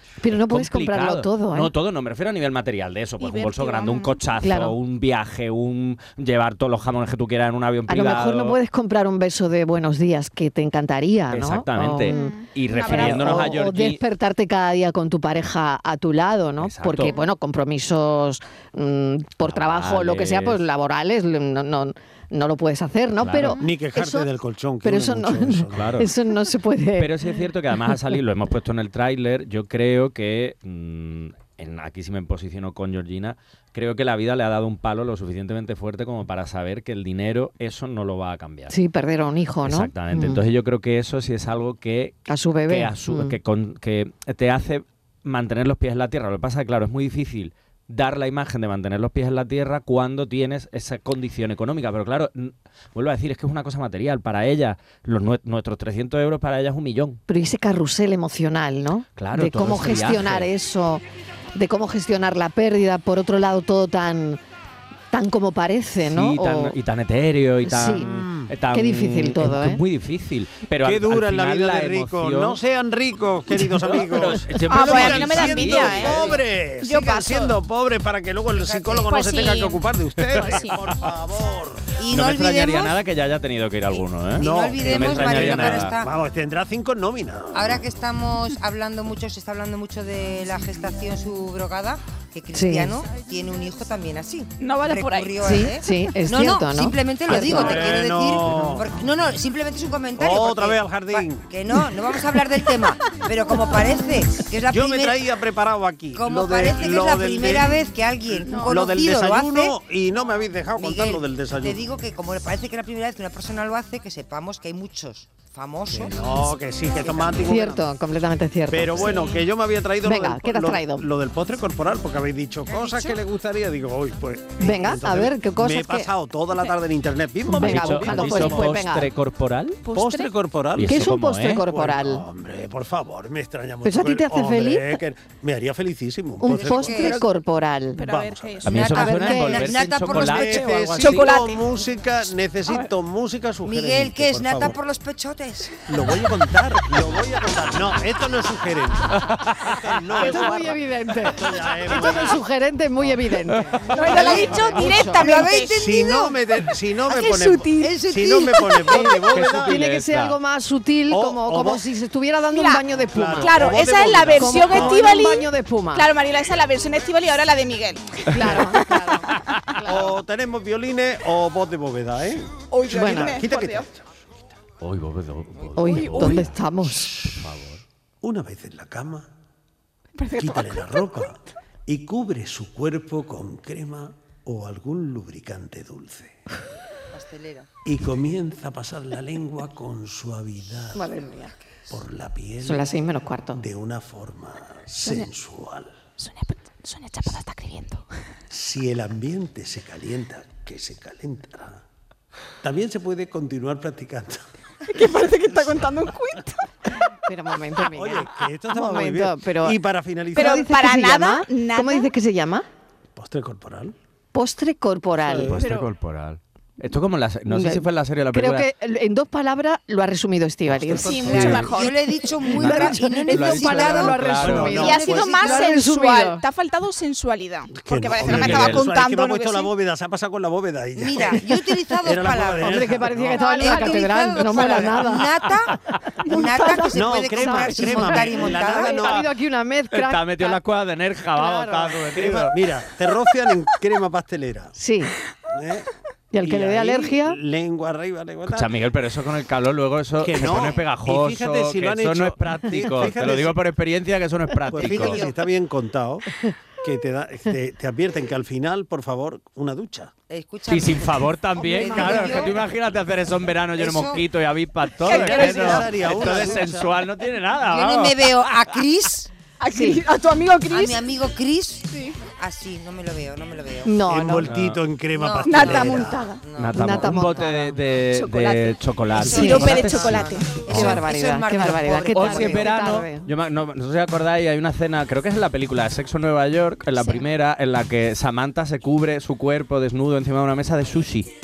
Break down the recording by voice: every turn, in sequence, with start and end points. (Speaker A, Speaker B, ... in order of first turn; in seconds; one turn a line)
Speaker A: 0.2-1.7
Speaker B: 0.3-8.6
Speaker C: 3.2-4.2
Speaker A: 4.4-4.8
Speaker A: 7.9-24.3
Speaker B: 11.3-14.0
Speaker C: 12.1-13.5
Speaker B: 16.6-17.2
Speaker B: 19.4-20.6
Speaker B: 23.2-23.6
Speaker D: 23.6-26.0
Speaker A: 24.8-27.1
Speaker B: 25.7-26.1
Speaker B: 27.0-38.7
Speaker A: 38.7-40.4
Speaker B: 39.6-57.2
Speaker A: 42.3-43.4
Speaker A: 57.3-61.0
Speaker B: 59.2-60.5
Speaker A: 61.5-64.4
Speaker A: 65.1-66.8
Speaker B: 66.1-72.6
Speaker A: 67.7-68.1
Speaker D: 68.0-68.5
Speaker A: 68.7-69.8
Speaker D: 70.8-81.9
Speaker B: 73.8-76.3
Speaker C: 74.7-77.6
Speaker E: 78.6-79.1
Speaker C: 79.0-80.8
Speaker E: 82.0-83.0
Speaker B: 82.1-86.0
Speaker E: 84.4-86.1
Speaker D: 84.4-87.8
Speaker E: 87.5-105.2
Speaker A: 92.5-92.9
Speaker C: 94.6-95.5
Speaker A: 95.4-97.7
Speaker D: 97.3-98.9
Speaker D: 100.2-101.5
Speaker D: 104.7-107.7
Speaker E: 106.1-109.8
Speaker C: 108.5-108.8
Speaker D: 108.6-111.8
Speaker E: 110.8-117.6
Speaker D: 115.9-117.8
Speaker A: 117.5-119.3
Speaker D: 118.7-128.8
Speaker C: 119.1-119.4
Speaker A: 120.0-121.0
Speaker E: 122.7-123.2
Speaker A: 124.6-126.1
Speaker A: 127.5-129.1
Speaker B: 127.6-129.8
Speaker C: 129.8-130.3
Speaker D: 129.9-137.1
Speaker B: 130.8-131.6
Speaker A: 130.9-132.2
Speaker A: 133.8-135.0
Speaker A: 136.4-138.0
Speaker E: 136.5-137.2
Speaker C: 136.9-137.2
Speaker C: 137.9-139.1
Speaker D: 138.0-138.7
Speaker B: 138.6-141.3
Speaker E: 138.7-141.2
Speaker A: 138.9-139.8
Speaker D: 140.1-144.8
Speaker C: 141.0-141.8
Speaker E: 143.6-145.8
Speaker D: 145.9-152.4
Speaker A: 150.2-155.3
Speaker C: 153.9-156.3
Speaker E: 154.1-156.2
Speaker D: 155.7-159.8
Speaker C: 157.1-158.0
Speaker E: 157.8-159.2
Speaker C: 158.6-159.0
Speaker A: 158.9-163.7
Speaker B: 159.3-160.3
Speaker D: 161.1-161.8
Speaker C: 162.5-162.8
Speaker D: 163.0-165.2
Speaker C: 163.4-169.0
Speaker A: 164.3-166.1
Speaker A: 168.3-169.3
Speaker D: 169.9-174.0
Speaker C: 172.7-173.9
Speaker A: 172.9-173.4
Speaker B: 174.8-176.6
Speaker A: 175.8-177.2
Speaker C: 175.8-176.4
Speaker B: 177.2-177.8
Speaker D: 178.2-179.3
Speaker C: 180.2-181.2
Speaker D: 180.3-186.3
Speaker E: 187.1-187.7
Speaker D: 187.8-191.1
Speaker A: 190.9-191.5
Speaker D: 191.9-192.9
Speaker A: 192.6-193.6
Speaker D: 193.5-195.9
Speaker D: 198.5-201.8
Speaker D: 202.6-204.4
Speaker C: 204.9-206.6
Speaker A: 207.3-209.8
Speaker D: 207.9-210.6
Speaker C: 210.3-212.1
Speaker A: 210.3-212.7
Speaker D: 213.2-213.9
Speaker A: 214.3-215.6
Speaker D: 215.2-215.6
Speaker B: 215.4-218.7
Speaker C: 215.6-215.9
Speaker A: 217.5-221.6
Speaker C: 221.0-222.0
Speaker E: 221.0-224.2
Speaker B: 221.3-221.7
Speaker A: 222.5-226.4
Speaker B: 222.6-224.8
Speaker D: 224.4-225.3
Speaker C: 224.8-229.7
Speaker E: 224.8-225.7
Speaker D: 227.7-231.5
Speaker B: 228.2-228.9
Speaker E: 231.0-239.2
Speaker D: 232.0-233.5
Speaker A: 232.6-235.4
Speaker A: 236.3-240.6
Speaker D: 236.9-239.2
Speaker B: 239.9-242.6
Speaker A: 241.3-242.0
Speaker D: 242.1-244.8
Speaker A: 244.8-245.2
Speaker D: 245.5-245.9
Speaker A: 246.3-247.4
Speaker D: 246.4-248.7
Speaker B: 248.5-255.3
Speaker D: 250.2-253.6
Speaker D: 254.7-256.2
Speaker E: 254.7-255.4
Speaker D: 256.8-260.1
Speaker E: 260.3-262.6
Speaker B: 260.7-268.2
Speaker C: 262.0-262.4
Speaker E: 263.8-264.2
Speaker C: 265.1-266.0
Speaker D: 265.1-266.9
Speaker E: 267.6-269.3
Speaker C: 269.6-271.0
Speaker A: 269.7-270.0
Speaker E: 270.7-274.0
Speaker C: 271.9-272.2
Speaker A: 273.9-274.5
Speaker D: 274.1-276.2
Speaker B: 274.4-274.8
Speaker E: 275.2-277.3
Speaker C: 275.4-276.4
Speaker B: 276.6-281.0
Speaker A: 276.8-277.8
Speaker C: 278.0-280.6
Speaker E: 279.2-282.9
Speaker A: 279.3-279.9
Speaker A: 280.7-283.3
Speaker B: 282.1-291.3